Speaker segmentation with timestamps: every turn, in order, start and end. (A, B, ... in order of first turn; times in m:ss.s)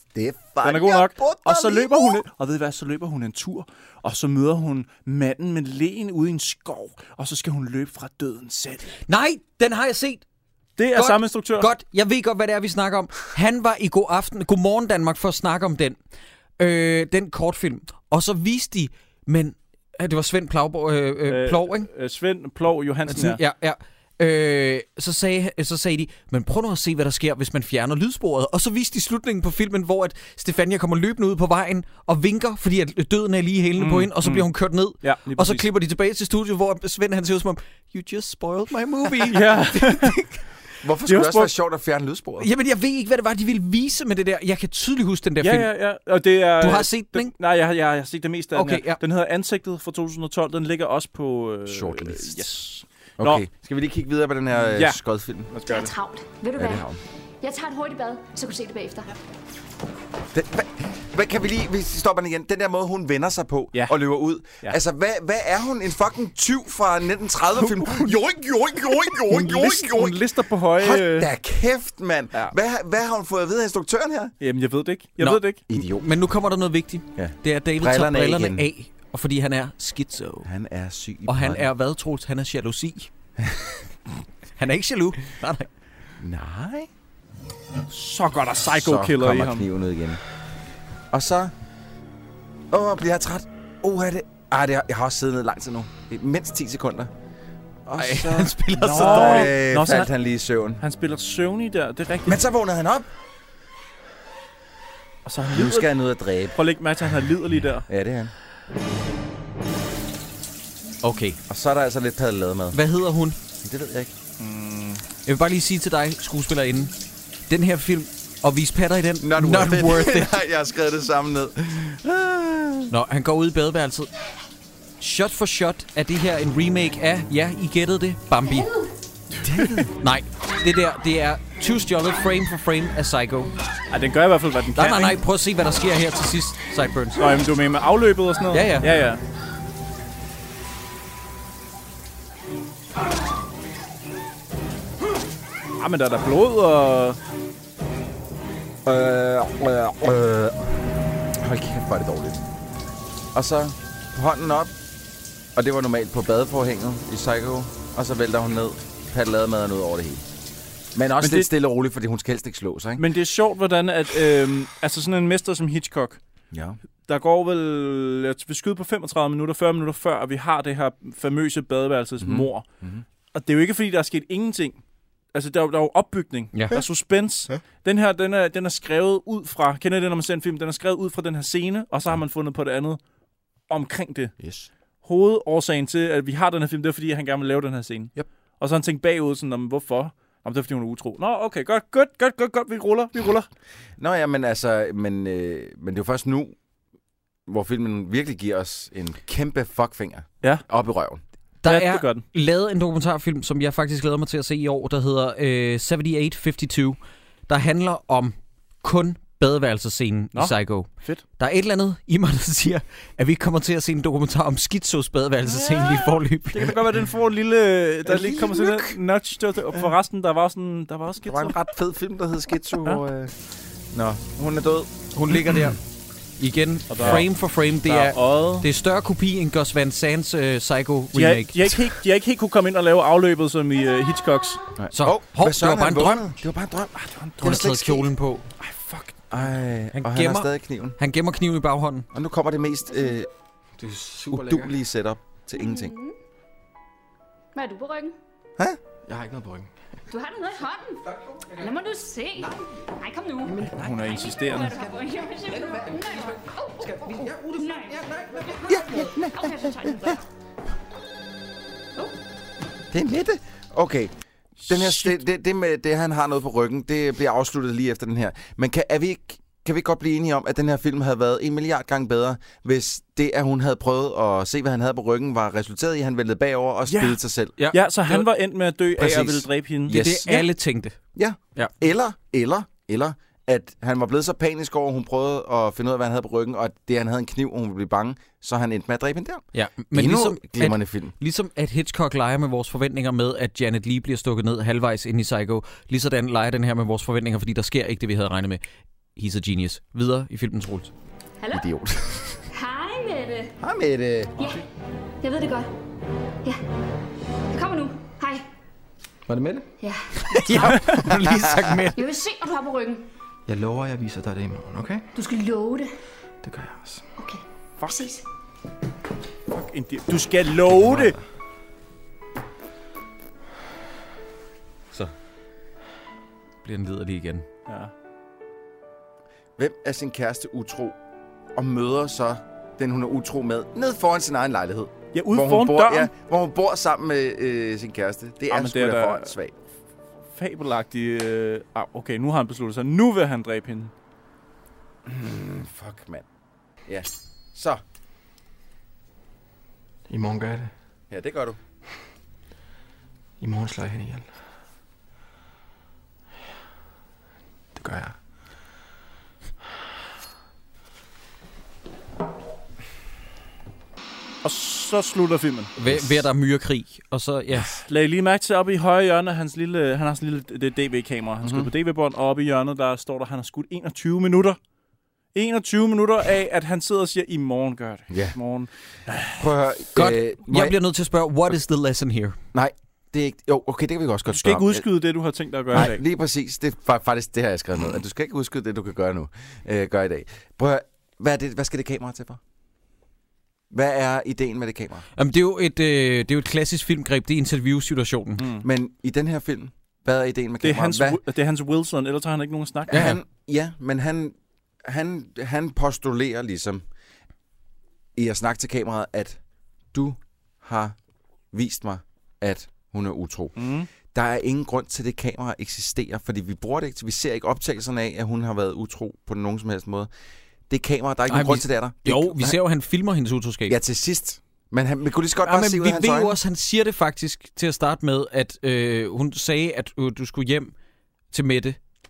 0:00.1-0:02.2 A
0:00.6-0:09.0 B
0:09.1-0:10.2 C
0:10.8-0:11.7 B
0:10.9-0:16.0 C
0:16.6-0:21.9 C
0:21.3-0:23.4 B
0:23.1-0:40.4 C
0:33.8-0:34.5 B
0:35.0-0:35.7 B
0:39.2-0:40.2 B
0:40.8-0:42.5 A
0:41.1-0:41.5 B
0:42.4-0:45.7 C
0:45.4-0:53.4 B
0:46.6-0:47.3 C
0:48.5-0:49.0 C
0:51.6-0:52.4 A
0:53.2-0:55.5 A
0:54.7-0:55.9 B
0:55.6-0:56.9 D
0:56.5-0:57.0 A
0:57.4-0:59.1 D
1:00.3-1:14.3 A
1:07.6-1:08.2 B
1:09.3-1:11.3 B
1:14.4-1:15.6 B
1:15.2-1:20.5 C
1:15.7-1:16.1 A
1:17.1-1:18.7 A
1:20.4-1:21.7 A
1:21.3-1:23.1 C
1:23.4-1:23.7 A
1:24.6-1:25.7 C
1:26.2-1:26.9 A
1:27.9-1:29.7 B
1:28.7-1:30.2 A
1:31.1-1:31.5 A
1:32.7-1:37.1 A
1:37.8-1:40.8 A
1:38.0-1:39.5 C
1:38.8-1:40.1 B
1:40.8-1:42.4 B
1:42.2-1:43.1 A
1:45.2-1:45.9 B
1:45.5-1:46.6 A
1:46.5-1:47.9 B
1:47.9-1:48.3 A
1:51.0-1:51.4 C
1:51.5-1:52.8 A
1:52.7-1:53.4 C
1:53.6-1:54.1 A
1:54.4-1:55.0 B
1:55.2-1:56.9 C
1:57.5-2:00.4 C
1:59.2-2:02.9 A
2:02.9-2:04.1 C
2:05.0-2:08.7 C
2:08.5-2:08.9 D
2:09.4-2:09.9 A
2:10.0-2:13.5 C
2:13.9-2:15.2 B
2:14.8-2:17.3 C
2:17.2-2:19.2 B
2:18.5-2:18.9 C
2:25.8-2:27.2 B
2:28.8-2:30.7 A
2:31.3-2:32.4 A
2:33.3-2:34.7 A
2:35.5-2:40.2 A
2:40.9-2:43.1 A
2:41.2-2:41.5 B
2:43.0-2:46.2 B
2:46.5-2:46.8 A
2:47.1-2:52.6 B
2:52.2-2:53.0 A
2:53.3-2:54.8 B
2:55.3-3:03.0 B
3:03.7-3:04.4 B
3:04.4-3:04.7 A
3:05.0-3:13.5 B
3:14.0-3:16.6 A
3:17.5-3:21.2 A
3:21.6-3:36.8 C
3:21.6-3:22.2 B
3:30.3-3:31.2 B
3:36.5-3:41.5 B
3:38.0-3:39.0 A
3:41.2-3:43.4 A
3:43.9-3:45.6 A
3:45.1-3:45.8 C
3:46.4-3:51.5 C
3:46.9-3:47.2 B
3:47.8-3:48.7 B
3:51.1-3:54.6 B
3:54.8-3:58.1 A
3:54.9-3:56.2 C
3:57.0-3:57.6 B
3:57.4-3:58.5 C
3:58.6-3:59.2 B
3:59.3-4:01.0 A
3:59.9-4:02.1 C
4:02.1-4:03.3 A
4:03.8-4:04.7 E
4:04.3-4:05.9 A
4:05.6-4:06.1 D
4:07.5-4:08.1 D
4:09.0-4:09.7 E
4:10.1-4:20.2 D
4:13.8-4:14.8 B
4:17.1-4:20.2 A
4:22.9-4:24.1 A
4:24.6-4:25.2 B
4:24.7-4:37.5 A
4:36.9-4:37.2 B
4:37.7-4:40.2 B
4:39.0-4:40.5 A
4:39.9-4:41.0 C
4:41.1-4:51.1 A
4:49.5-4:58.6 C
4:59.2-5:00.9 C
5:01.4-5:01.7 D
5:01.5-5:02.3 A
5:02.5-5:03.5 D
5:03.6-5:04.4 A
5:05.2-5:05.7 D
5:07.5-5:08.4 D
5:09.3-5:09.7 E
5:09.8-5:10.8 D
5:10.3-5:12.0 C
5:11.1-5:11.6 A
5:11.9-5:13.0 D
5:13.4-5:15.1 E
5:15.1-5:15.9 D
5:16.4-5:17.1 E
5:17.2-5:18.2 D
5:19.5-5:21.2 B
5:26.6-5:27.4 C
5:29.6-5:31.0 A
5:31.5-5:39.5 A
5:35.1-5:36.1 B
5:38.5-5:39.3 B
5:40.3-5:43.9 B
5:45.0-5:46.2 A
5:46.8-5:47.8 A
5:50.1-5:50.7 E
5:51.1-5:51.6 A
5:53.4-5:54.3 E
5:57.7-5:58.2 E
6:04.4-6:05.7 B
6:05.8-6:07.7 C
6:07.9-6:14.6 B
6:11.4-6:11.7 A
6:15.3-6:19.4 B
6:18.1-6:18.4 A
6:19.3-6:20.8 A
6:19.9-6:22.4 C
6:22.5-6:24.8 A
6:24.3-6:26.0 B
6:25.7-6:32.4 A
6:33.7-6:35.0 A
6:35.2-6:38.4 C
6:38.4-6:38.6 B
6:38.6-6:41.2 A
6:40.6-6:43.1 B
6:42.9-6:46.8 A
6:42.9-6:43.2 C
6:48.2-6:49.4 A
6:49.9-6:51.0 A
6:51.5-7:00.1 A
6:53.6-6:53.9 B
7:00.7-7:02.6 A
7:01.3-7:03.8 C
7:03.7-7:06.4 A
7:05.4-7:10.7 C
7:11.3-7:11.8 C